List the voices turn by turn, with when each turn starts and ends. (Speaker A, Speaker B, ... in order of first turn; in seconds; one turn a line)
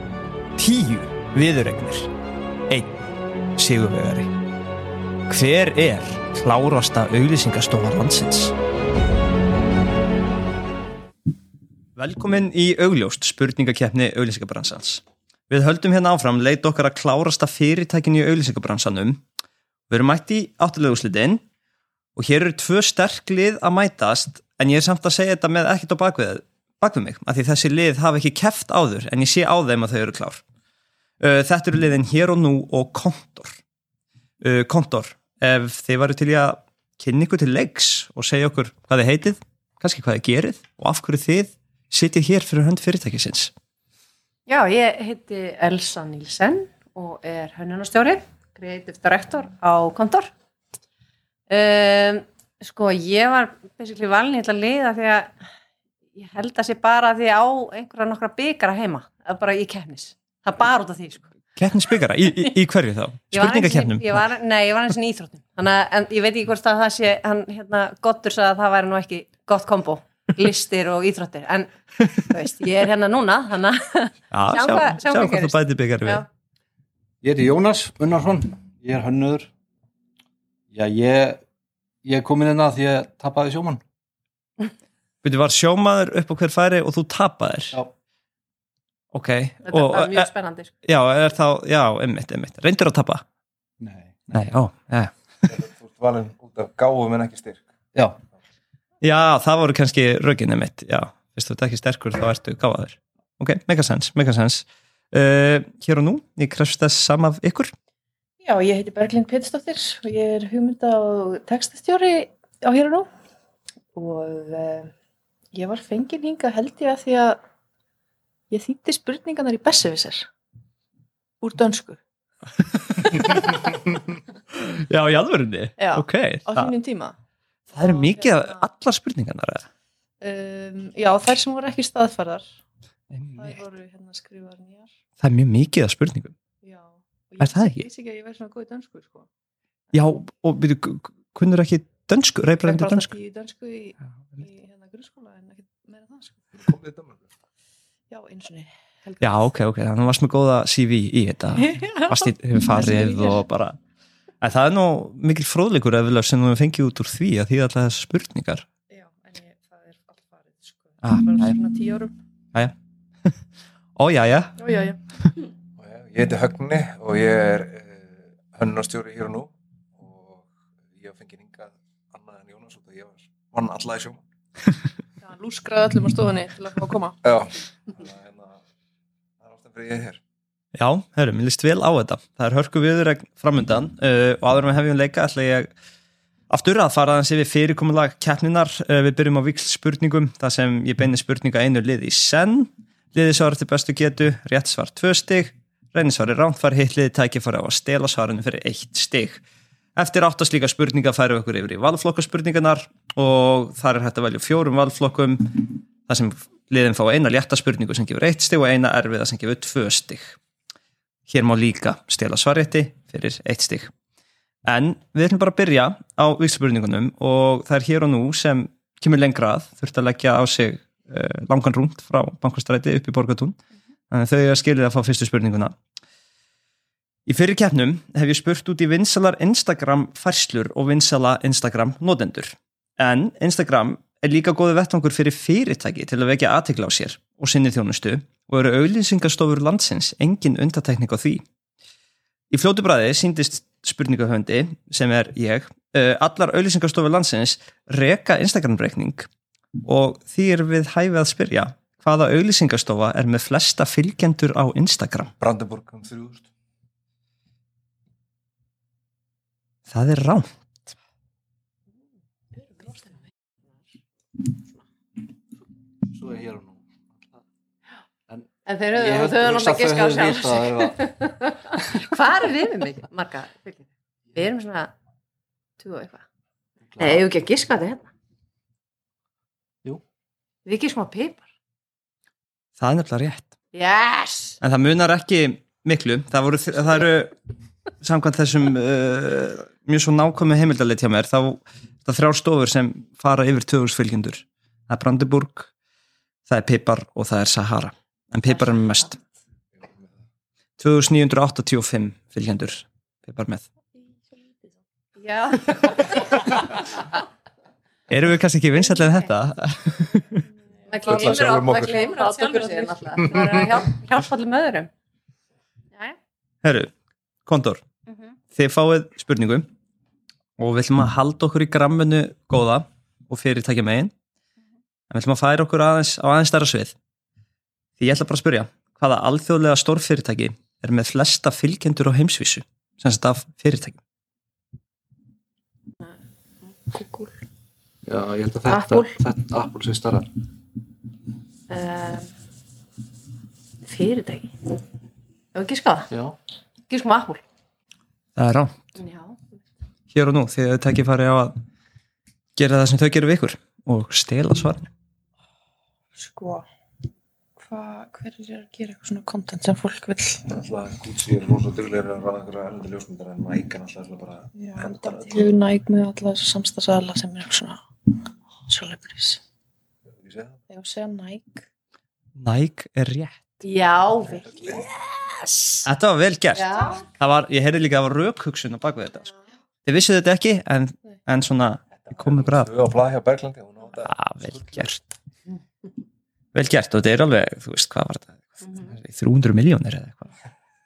Speaker A: 0.6-2.1
Speaker A: 2.7-3.0
Speaker A: 3.6-4.3
Speaker A: 5.3-8.5
Speaker A: 12.0-19.2
Speaker A: 19.9-21.4
Speaker A: 22.1-30.4
Speaker A: 31.2-33.6
Speaker A: 34.4-43.5
Speaker B: 44.5-50.3
Speaker B: 51.5-55.3
Speaker B: 56.1-61.3
Speaker A: 61.6-64.2
Speaker B: 63.3-76.3
Speaker A: 74.3-76.2
Speaker C: 77.2-79.5
Speaker C: 80.7-81.4
Speaker C: 82.0-83.8
Speaker A: 85.2-87.8
Speaker A: 89.1-90.3
Speaker B: 89.7-90.7
Speaker A: 90.8-93.2
Speaker C: 93.8-94.3
Speaker A: 94.3-95.1
Speaker D: 95.5-97.7
Speaker A: 99.0-107.7
Speaker E: 108.4-113.1
Speaker E: 114.0-114.9
Speaker E: 115.5-117.4
Speaker E: 118.5-120.3
Speaker E: 121.4-122.0
Speaker A: 122.7-123.7
Speaker A: 124.5-126.7
Speaker E: 125.8-127.2
Speaker A: 127.7-129.7
Speaker E: 127.8-128.6
Speaker E: 130.2-132.5
Speaker A: 133.1-133.6
Speaker E: 133.4-134.9
Speaker A: 135.2-136.3
Speaker E: 136.6-139.3
Speaker A: 137.4-137.9
Speaker A: 139.9-143.1
Speaker E: 142.7-146.4
Speaker D: 146.6-147.2
Speaker E: 148.1-149.3
Speaker A: 149.2-153.8
Speaker E: 151.6-153.4
Speaker A: 154.4-158.7
Speaker E: 158.9-162.2
Speaker A: 161.0-161.6
Speaker A: 164.0-164.6
Speaker E: 164.6-165.0
Speaker D: 165.8-174.2
Speaker E: 175.2-177.2
Speaker D: 177.2-178.6
Speaker D: 179.4-180.2
Speaker A: 180.8-185.7
Speaker A: 186.5-199.4
Speaker A: 200.0-210.4
Speaker A: 211.3-213.9
Speaker A: 214.7-223.6
Speaker A: 224.1-225.8
Speaker A: 227.2-241.4
Speaker A: 242.5-249.3
Speaker A: 249.8-255.3
Speaker D: 255.4-256.5
Speaker A: 259.9-260.5
Speaker E: 262.6-263.1
Speaker C: 266.1-267.4
Speaker C: 268.3-271.0
Speaker B: 268.7-274.9
Speaker B: 275.8-276.2
Speaker C: 276.9-277.2
Speaker B: 277.0-278.1
Speaker B: 280.6-281.4
Speaker A: 282.8-283.5
Speaker B: 283.7-284.6
Speaker A: 284.6-287.3
Speaker A: 288.0-295.7
Speaker A: 296.5-299.2
Speaker B: 298.5-299.0
Speaker A: 300.8-303.6
Speaker E: 303.9-304.8
Speaker B: 305.2-307.0
Speaker A: 308.1-310.4
Speaker B: 308.9-309.2
Speaker E: 310.4-313.5
Speaker B: 310.9-314.9
Speaker D: 311.0-312.0
Speaker D: 313.2-313.8
Speaker A: 316.6-316.9
Speaker A: 317.4-317.8
Speaker B: 318.1-318.4
Speaker A: 318.5-319.7
Speaker A: 320.6-324.1
Speaker A: 325.1-326.9
Speaker A: 328.0-334.0
Speaker B: 336.0-337.4
Speaker C: 338.0-340.3
Speaker B: 338.7-339.2
Speaker B: 341.7-342.3
Speaker B: 343.9-344.5
Speaker B: 345.5-346.1
Speaker C: 346.1-346.4
Speaker B: 346.9-347.4
Speaker A: 348.4-348.8
Speaker B: 349.0-349.4
Speaker A: 350.1-351.5
Speaker A: 352.5-354.9
Speaker E: 356.1-356.6
Speaker E: 357.6-360.4
Speaker D: 360.5-365.5
Speaker E: 364.6-367.8
Speaker E: 368.7-369.4
Speaker D: 370.2-370.6
Speaker E: 370.7-371.6
Speaker A: 372.4-373.4
Speaker B: 373.6-374.8
Speaker A: 375.9-379.3
Speaker B: 376.6-377.0
Speaker E: 376.7-377.0
Speaker A: 379.8-382.7
Speaker D: 382.0-384.1
Speaker A: 384.0-385.0
Speaker C: 384.4-384.8
Speaker A: 386.5-390.3
Speaker B: 388.6-388.9